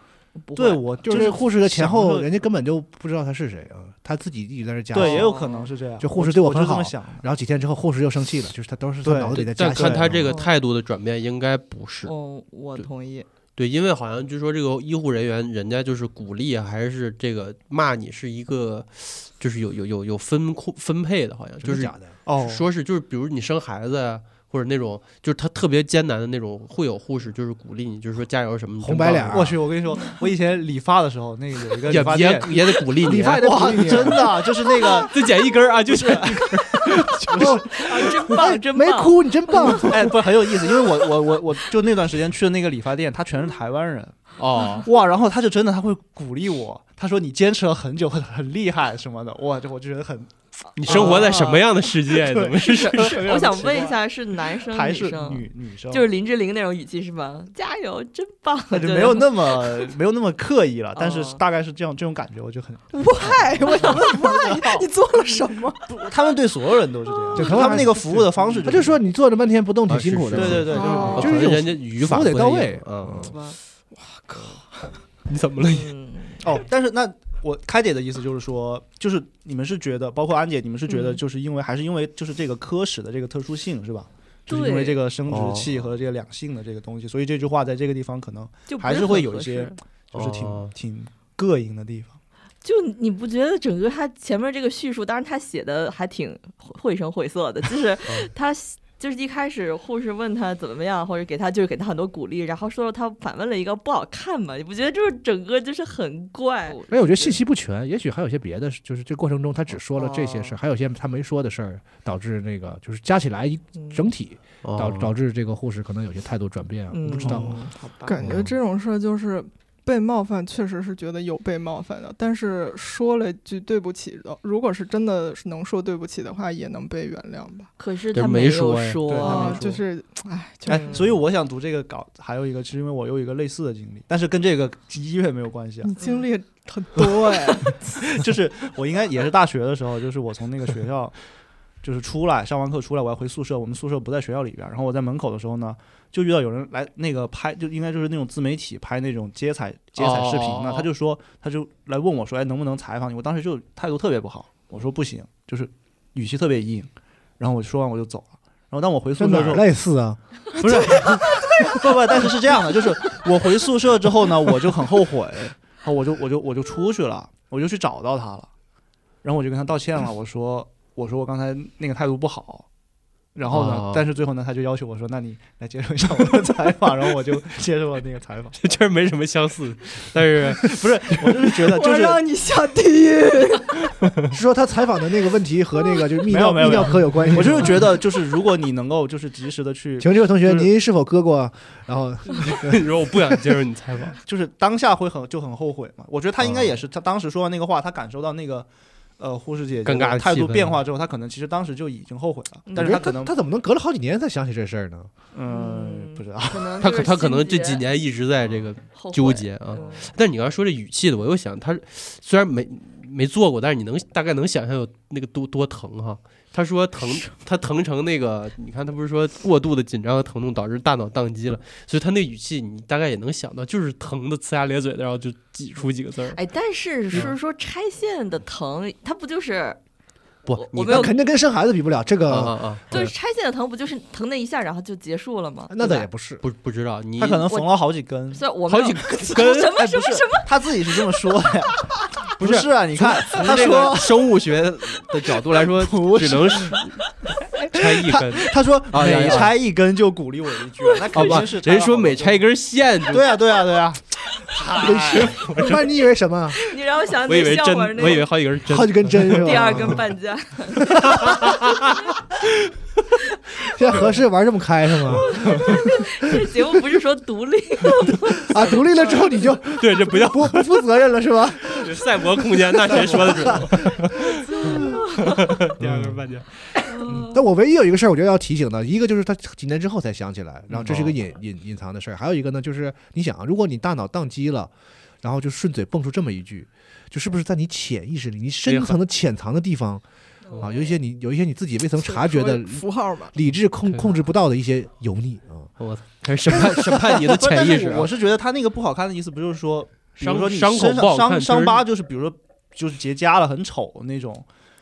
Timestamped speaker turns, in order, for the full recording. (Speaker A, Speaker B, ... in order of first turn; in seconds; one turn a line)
Speaker A: 0.4-1.0
Speaker B: 0.5-2.3
Speaker C: 1.0-5.3
Speaker B: 4.9-7.2
Speaker A: 5.0-5.7
Speaker C: 6.0-10.3
Speaker B: 9.0-10.1
Speaker D: 9.3-12.1
Speaker A: 12.1-13.3
Speaker D: 13.6-29.6
Speaker C: 21.6-22.2
Speaker B: 22.2-22.6
Speaker C: 28.8-29.6
Speaker B: 29.3-35.1
Speaker D: 31.8-34.2
Speaker C: 33.0-34.3
Speaker D: 35.1-38.1
Speaker B: 36.0-37.6
Speaker C: 37.4-37.7
Speaker A: 37.7-39.8
Speaker C: 38.3-40.1
Speaker B: 39.8-44.2
Speaker D: 44.4-44.9
Speaker B: 44.8-51.6
Speaker D: 50.8-53.3
Speaker A: 50.8-51.6
Speaker B: 52.1-56.0
Speaker A: 52.6-59.9
Speaker B: 58.7-64.9
Speaker A: 61.0-61.4
Speaker E: 62.9-65.9
Speaker B: 65.9-69.0
Speaker E: 67.3-67.7
Speaker C: 67.3-73.3
Speaker D: 69.9-73.3
Speaker B: 70.3-71.4
Speaker E: 70.7-71.3
Speaker A: 70.8-71.2
Speaker A: 73.2-73.6
Speaker E: 73.9-74.9
Speaker D: 75.2-75.9
Speaker A: 75.7-76.4
Speaker B: 76.4-92.2
Speaker A: 80.9-81.2
Speaker A: 84.5-85.0
Speaker D: 85.3-85.9
Speaker A: 88.7-89.8
Speaker D: 90.1-90.7
Speaker A: 92.6-107.3
Speaker C: 106.9-117.6
Speaker A: 109.9-110.5
Speaker A: 113.7-114.0
Speaker D: 114.6-115.1
Speaker A: 116.9-118.2
Speaker B: 117.2-117.5
Speaker E: 118.1-127.7
Speaker C: 118.2-118.5
Speaker A: 127.8-129.8
Speaker D: 128.1-129.2
Speaker B: 129.1-129.7
Speaker E: 129.2-131.1
Speaker B: 130.7-135.9
Speaker A: 130.7-131.1
Speaker E: 135.8-138.2
Speaker A: 136.0-136.2
Speaker B: 138.1-141.2
Speaker B: 141.8-159.7
Speaker D: 150.0-150.9
Speaker C: 159.2-160.2
Speaker B: 160.5-168.5
Speaker B: 169.2-172.7
Speaker B: 173.3-178.6
Speaker D: 173.5-174.0
Speaker D: 178.6-181.7
Speaker B: 180.6-182.2
Speaker E: 181.7-183.9
Speaker C: 184.3-187.9
Speaker B: 186.3-190.7
Speaker C: 190.0-193.0
Speaker D: 192.3-194.2
Speaker B: 194.2-198.7
Speaker D: 196.4-196.7
Speaker B: 199.2-203.3
Speaker D: 199.8-200.8
Speaker C: 202.8-205.1
Speaker B: 205.3-206.8
Speaker A: 205.5-207.8
Speaker D: 206.8-226.4
Speaker A: 208.9-210.1
Speaker A: 226.3-229.8
Speaker D: 230.5-231.1
Speaker A: 230.5-231.2
Speaker C: 230.8-233.1
Speaker D: 232.3-232.9
Speaker A: 232.9-236.1
Speaker C: 235.7-236.4
Speaker D: 236.4-237.5
Speaker B: 237.2-238.4
Speaker A: 238.3-240.5
Speaker D: 238.7-239.5
Speaker B: 239.2-244.2
Speaker D: 242.4-247.0
Speaker B: 245.6-246.8
Speaker B: 247.4-252.4
Speaker D: 247.6-249.5
Speaker D: 251.1-253.6
Speaker B: 253.1-255.4
Speaker C: 254.7-256.6
Speaker D: 254.9-255.9
Speaker A: 256.6-258.3
Speaker D: 257.2-259.9
Speaker C: 258.6-260.0
Speaker A: 259.2-261.4
Speaker D: 261.0-262.1
Speaker C: 263.6-265.8
Speaker A: 265.2-269.4
Speaker D: 265.3-265.8
Speaker C: 268.1-274.1
Speaker D: 269.7-271.0
Speaker D: 271.6-276.7
Speaker A: 274.4-275.5
Speaker C: 274.6-274.9
Speaker C: 275.8-276.2
Speaker A: 276.9-277.4
Speaker C: 276.9-290.0
Speaker D: 280.7-281.1
Speaker D: 288.6-289.0
Speaker C: 290.5-295.7
Speaker E: 292.0-293.3
Speaker D: 295.8-298.1
Speaker B: 297.1-304.5
Speaker D: 300.2-301.8